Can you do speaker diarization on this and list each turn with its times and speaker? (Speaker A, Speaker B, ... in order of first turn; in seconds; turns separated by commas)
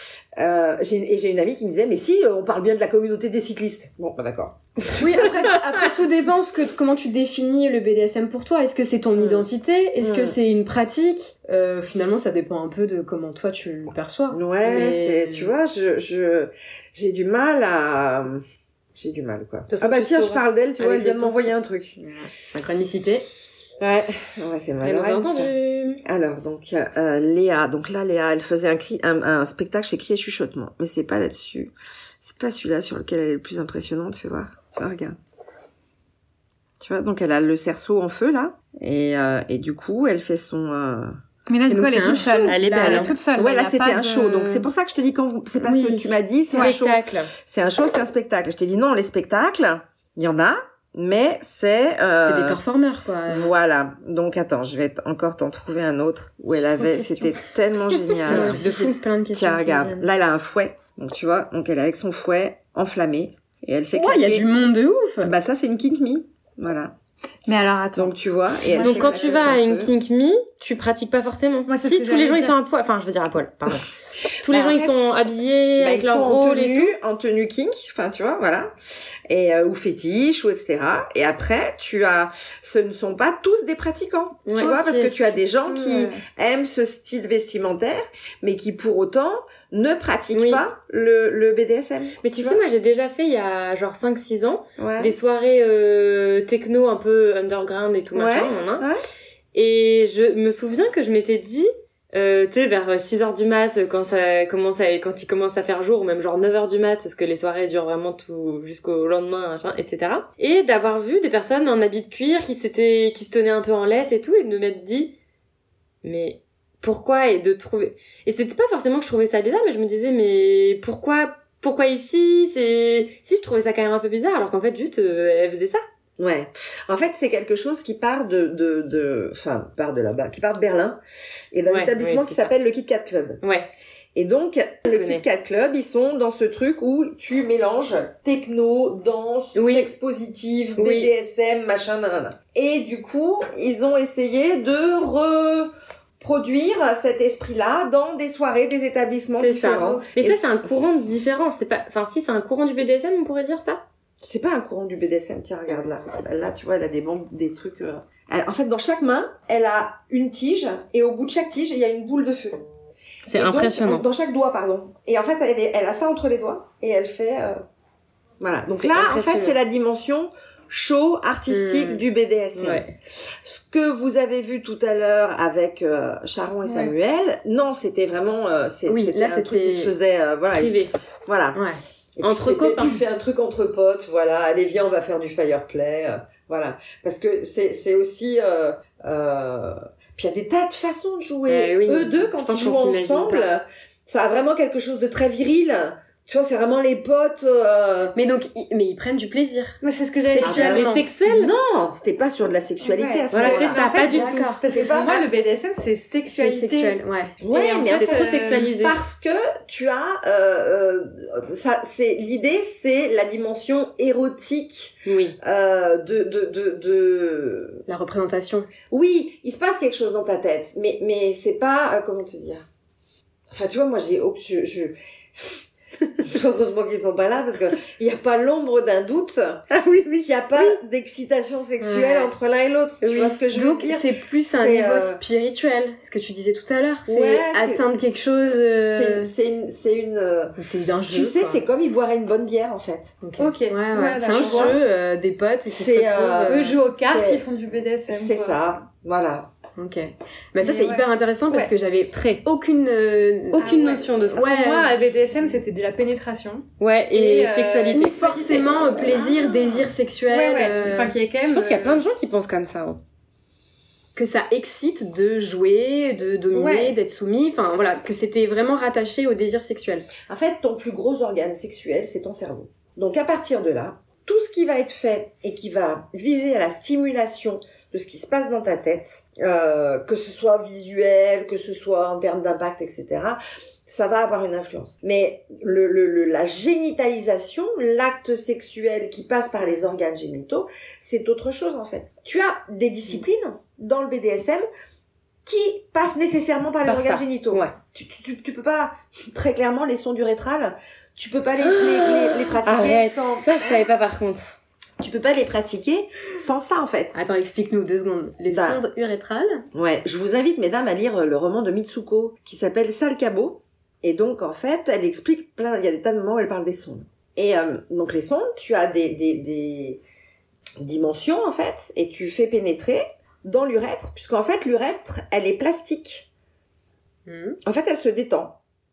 Speaker A: 0.4-5.3, Speaker B: 4.9-15.3, Speaker A: 9.2-9.5, Speaker A: 10.0-10.4, Speaker A: 14.3-18.4, Speaker A: 18.9-22.0, Speaker C: 19.7-21.5, Speaker B: 22.0-23.3, Speaker A: 23.8-25.5, Speaker C: 24.8-26.0, Speaker A: 26.0-35.2, Speaker A: 36.8-41.1, Speaker D: 41.5-43.3, Speaker B: 41.6-44.7, Speaker A: 41.8-42.2, Speaker C: 42.4-43.2, Speaker A: 43.3-52.6, Speaker B: 45.6-46.7, Speaker C: 46.5-47.3, Speaker B: 52.2-53.5, Speaker A: 53.3-58.7, Speaker B: 58.2-60.1, Speaker C: 58.3-59.0, Speaker A: 59.3-64.6, Speaker B: 63.9-65.3, Speaker A: 65.2-67.0, Speaker D: 67.5-68.1, Speaker A: 67.9-69.9, Speaker D: 68.7-69.5, Speaker C: 68.8-73.9, Speaker D: 71.7-72.5, Speaker C: 74.4-76.9, Speaker A: 74.5-74.9, Speaker A: 75.8-92.6, Speaker B: 84.5-84.7, Speaker D: 84.6-86.2, Speaker C: 90.3-90.6, Speaker C: 92.2-98.9, Speaker A: 94.8-95.2, Speaker A: 98.1-99.0, Speaker C: 99.5-115.1, Speaker C: 116.0-125.8, Speaker A: 126.2-131.0, Speaker A: 131.5-133.4, Speaker C: 131.7-132.5, Speaker C: 133.4-133.7, Speaker A: 134.2-150.4, Speaker C: 134.9-135.2, Speaker C: 139.6-139.9, Speaker C: 140.8-141.1, Speaker C: 149.3-153.8, Speaker A: 154.2-162.6, Speaker A: 163.2-167.6, Speaker C: 163.3-164.1, Speaker A: 168.4-181.6, Speaker C: 168.7-169.6, Speaker B: 171.5-172.0, Speaker C: 172.6-172.9, Speaker D: 176.7-176.9, Speaker B: 178.9-179.9, Speaker C: 180.5-180.9, Speaker B: 181.5-181.8, Speaker A: 182.2-198.2, Speaker C: 182.2-183.0, Speaker C: 191.5-192.1, Speaker B: 192.3-193.5, Speaker B: 198.2-201.1, Speaker D: 199.8-200.6, Speaker C: 200.4-201.5, Speaker A: 200.4-203.9, Speaker D: 202.8-207.0, Speaker C: 203.3-204.5, Speaker B: 204.0-205.2, Speaker A: 204.7-205.1, Speaker B: 206.3-207.3, Speaker A: 207.4-217.8, Speaker D: 207.5-208.7, Speaker C: 207.8-209.0, Speaker C: 215.1-215.4, Speaker B: 217.9-218.7, Speaker A: 218.9-222.7, Speaker A: 223.5-225.7, Speaker A: 226.2-229.7, Speaker C: 229.7-230.8, Speaker A: 230.2-235.2, Speaker B: 231.8-232.3, Speaker C: 233.0-233.4, Speaker B: 233.5-239.3, Speaker A: 237.1-238.1, Speaker A: 238.9-243.2, Speaker B: 240.6-241.6, Speaker B: 243.2-246.8, Speaker D: 243.4-244.8, Speaker A: 244.2-244.8, Speaker A: 245.7-247.4, Speaker D: 246.4-248.6, Speaker A: 248.1-249.5, Speaker B: 249.8-255.0, Speaker D: 250.6-251.7, Speaker C: 252.1-252.4, Speaker D: 253.6-258.1, Speaker C: 253.6-254.5, Speaker C: 256.8-258.9, Speaker B: 257.9-261.2, Speaker D: 258.9-262.0, Speaker C: 261.4-263.0, Speaker B: 264.2-270.1, Speaker D: 266.5-267.0, Speaker A: 270.3-294.6, Speaker A: 295.4-303.5, Speaker C: 296.9-297.8, Speaker C: 301.6-304.6, Speaker A: 305.0-307.1, Speaker B: 307.1-309.6, Speaker A: 308.5-308.8, Speaker A: 309.7-320.0, Speaker A: 320.8-326.3, Speaker B: 327.3-327.6, Speaker A: 327.6-328.6